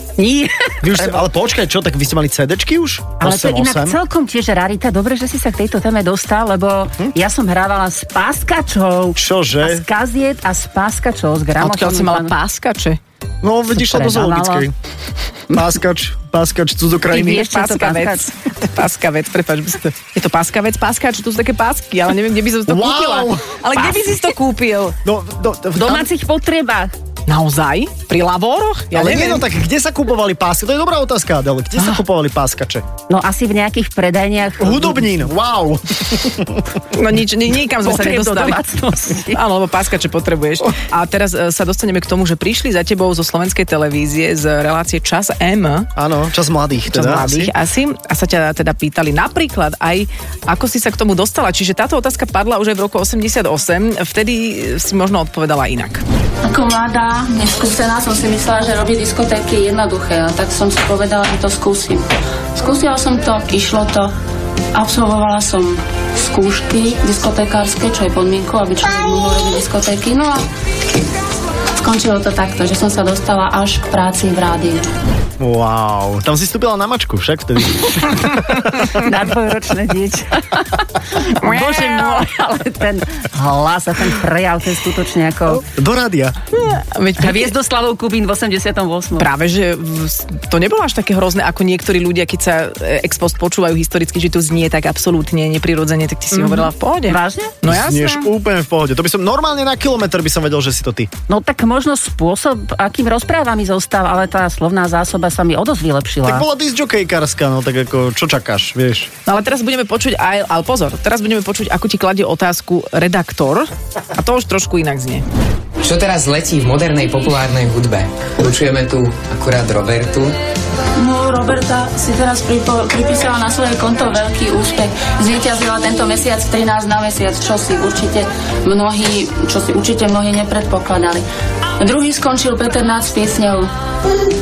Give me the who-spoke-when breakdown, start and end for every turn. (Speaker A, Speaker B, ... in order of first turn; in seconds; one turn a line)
Speaker A: 0.2-1.2
Speaker B: 0.8-4.0
Speaker A: 3.2-12.3
Speaker B: 9.2-9.8
Speaker C: 11.6-13.0
Speaker B: 13.4-14.7
Speaker A: 13.7-14.7
Speaker B: 15.5-17.4
Speaker A: 17.1-18.3
Speaker C: 17.2-25.0
Speaker B: 22.7-23.5
Speaker A: 23.8-24.1
Speaker B: 25.0-26.1
Speaker A: 25.8-26.9
Speaker C: 27.3-29.5
Speaker B: 28.9-32.8
Speaker A: 33.1-35.1
Speaker B: 34.6-36.7
Speaker C: 36.9-38.6
Speaker A: 37.8-39.4
Speaker C: 39.3-45.9
Speaker B: 46.0-47.5
Speaker C: 46.9-56.0
Speaker D: 56.4-64.1
Speaker D: 64.7-70.5
Speaker D: 71.8-74.8
Speaker B: 75.4-78.9
Speaker A: 78.8-85.6
Speaker C: 81.4-82.3
Speaker B: 85.6-86.4
Speaker C: 86.5-87.5
Speaker A: 87.2-89.3
Speaker C: 89.2-98.3
Speaker A: 96.3-97.5
Speaker B: 97.7-101.1
Speaker A: 101.3-106.4
Speaker B: 106.2-109.1
Speaker C: 109.2-115.2
Speaker E: 115.8-120.3
Speaker D: 121.0-131.2
Speaker D: 131.8-133.7